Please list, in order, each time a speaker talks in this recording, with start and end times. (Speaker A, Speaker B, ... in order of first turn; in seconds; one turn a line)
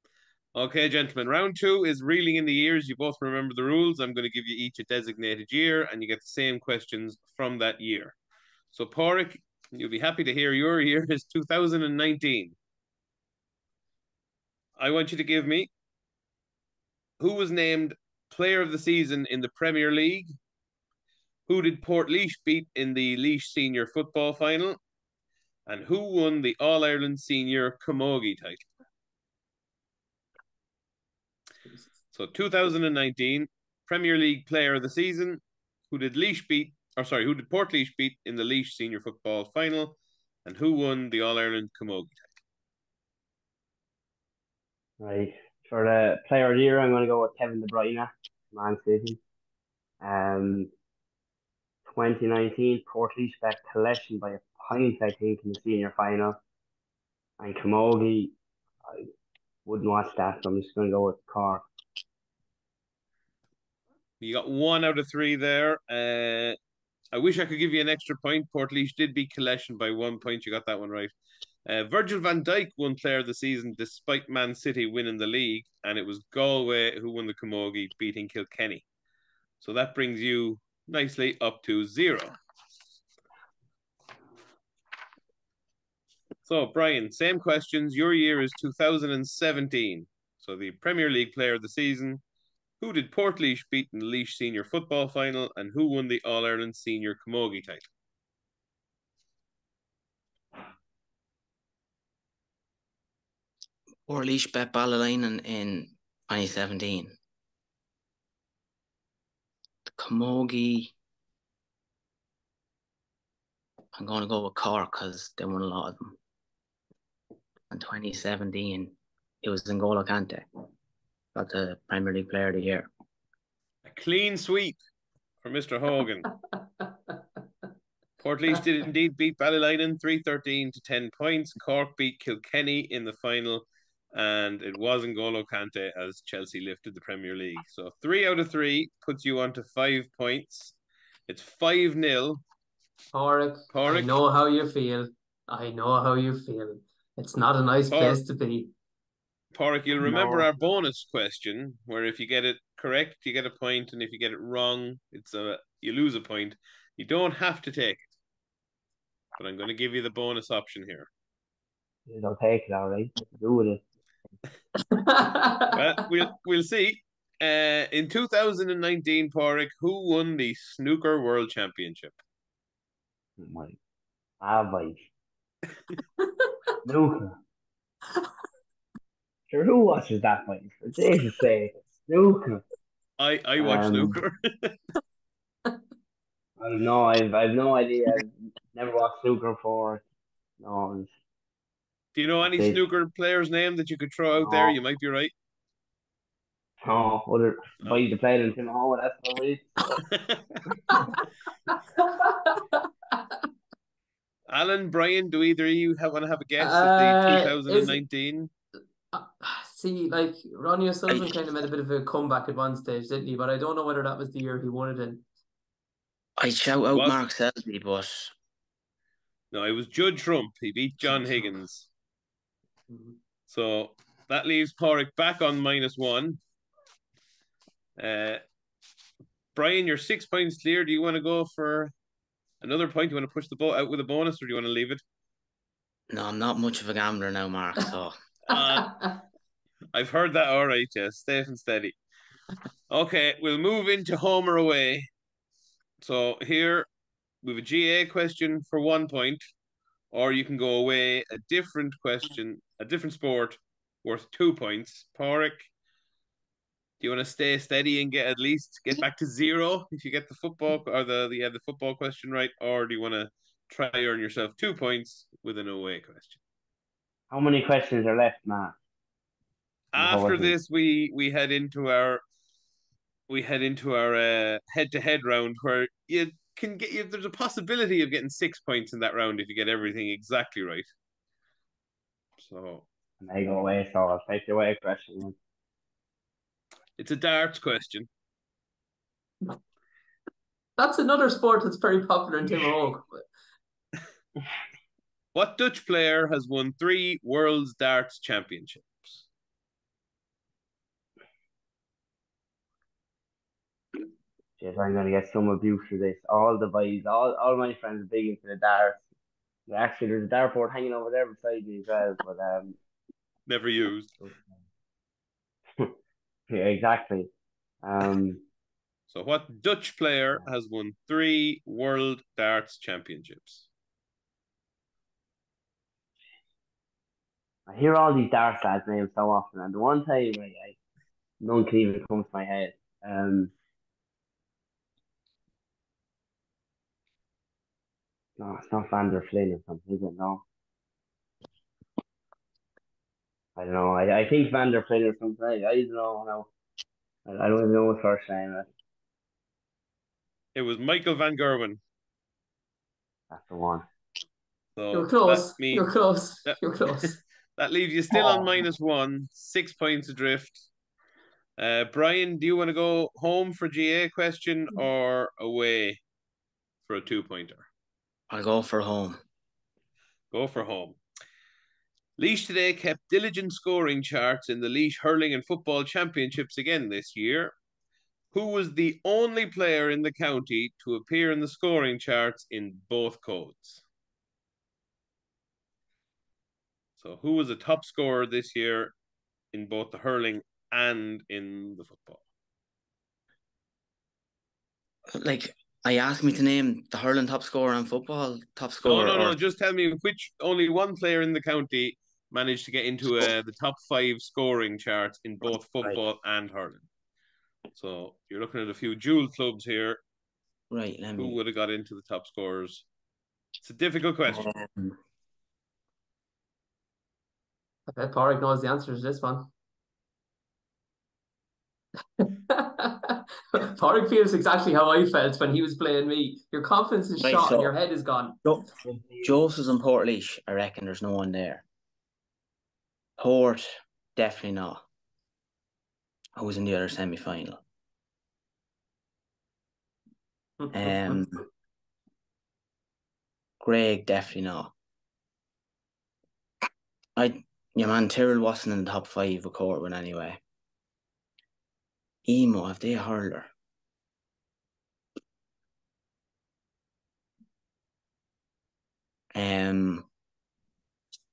Speaker A: 0.5-8.2
Speaker A: 8.7-12.6
Speaker A: 14.8-15.7
Speaker A: 17.2-20.3
Speaker A: 21.5-24.8
Speaker A: 25.7-28.6
Speaker A: 32.1-42.2
Speaker B: 45.0-49.2
Speaker B: 50.0-50.7
Speaker B: 51.9-56.4
Speaker B: 57.4-58.3
Speaker B: 59.6-61.6
Speaker A: 64.2-66.6
Speaker A: 67.1-71.1
Speaker A: 71.7-78.8
Speaker A: 79.6-82.3
Speaker A: 86.4-92.2
Speaker A: 92.8-97.8
Speaker C: 104.1-107.2
Speaker C: 109.9-110.9
Speaker C: 113.9-116.2
Speaker C: 117.7-120.4
Speaker C: 121.3-122.9
Speaker A: 123.8-124.8
Speaker A: 125.4-126.3
Speaker A: 128.2-140.8
Speaker A: 141.3-142.4
Speaker D: 143.1-148.7
Speaker A: 143.7-144.1
Speaker A: 147.9-148.2
Speaker A: 149.5-158.1
Speaker B: 150.0-150.5
Speaker A: 159.4-161.1
Speaker B: 162.1-163.8
Speaker D: 164.8-165.8
Speaker A: 165.7-172.2
Speaker B: 173.4-173.8
Speaker B: 174.4-175.1
Speaker B: 176.8-177.3
Speaker B: 179.5-182.6
Speaker A: 183.2-184.7
Speaker B: 183.6-184.2
Speaker B: 186.6-190.0
Speaker B: 190.6-191.1
Speaker A: 192.2-195.3
Speaker B: 192.4-192.8
Speaker B: 194.4-194.8
Speaker B: 196.8-200.0
Speaker A: 200.2-200.6
Speaker D: 200.9-202.8
Speaker A: 204.5-208.5
Speaker D: 206.6-208.0
Speaker D: 209.1-215.2
Speaker C: 216.4-218.3
Speaker A: 216.9-217.2
Speaker A: 219.5-221.9
Speaker D: 222.9-223.2
Speaker A: 223.5-226.4
Speaker A: 228.0-228.4
Speaker A: 229.6-231.9
Speaker A: 232.6-235.0
Speaker C: 236.1-238.2
Speaker A: 238.5-239.1
Speaker D: 238.8-239.1
Speaker A: 239.9-241.9
Speaker A: 242.9-245.1
Speaker A: 246.0-246.9
Speaker A: 247.4-249.4
Speaker A: 250.1-255.7
Speaker A: 257.0-266.4
Speaker B: 267.3-268.8
Speaker A: 269.9-272.2
Speaker B: 269.9-270.6
Speaker A: 273.3-280.9
Speaker A: 282.4-282.9
Speaker B: 283.2-285.4
Speaker A: 287.0-288.1
Speaker D: 290.8-293.2
Speaker A: 295.3-299.2
Speaker B: 304.6-309.1
Speaker B: 309.7-312.8
Speaker A: 313.5-314.1
Speaker B: 316.5-317.3
Speaker B: 317.8-318.4
Speaker A: 319.1-323.7
Speaker B: 327.7-330.8
Speaker B: 331.4-333.5
Speaker B: 338.4-340.4
Speaker B: 343.6-346.5
Speaker B: 347.2-348.7
Speaker A: 350.6-351.8
Speaker B: 353.3-353.8
Speaker A: 354.8-355.9
Speaker D: 354.9-357.2
Speaker A: 356.4-360.7
Speaker A: 361.6-366.0
Speaker A: 366.9-367.7
Speaker C: 368.3-369.2
Speaker A: 370.3-371.0
Speaker A: 372.2-377.5
Speaker A: 378.3-383.8
Speaker A: 387.0-388.9
Speaker A: 389.5-392.2
Speaker C: 395.1-399.3
Speaker A: 398.8-406.9
Speaker A: 407.7-410.0
Speaker C: 410.7-411.4
Speaker A: 411.2-412.9
Speaker A: 413.6-414.5
Speaker C: 414.3-414.9
Speaker D: 417.9-419.5
Speaker D: 422.2-428.4
Speaker C: 427.2-427.7
Speaker B: 428.8-429.3
Speaker C: 429.2-431.6
Speaker C: 433.2-434.8
Speaker C: 436.4-437.6
Speaker D: 440.6-441.2
Speaker C: 440.7-441.4
Speaker C: 443.6-444.7
Speaker C: 447.2-450.4
Speaker C: 452.2-453.5
Speaker C: 459.3-460.1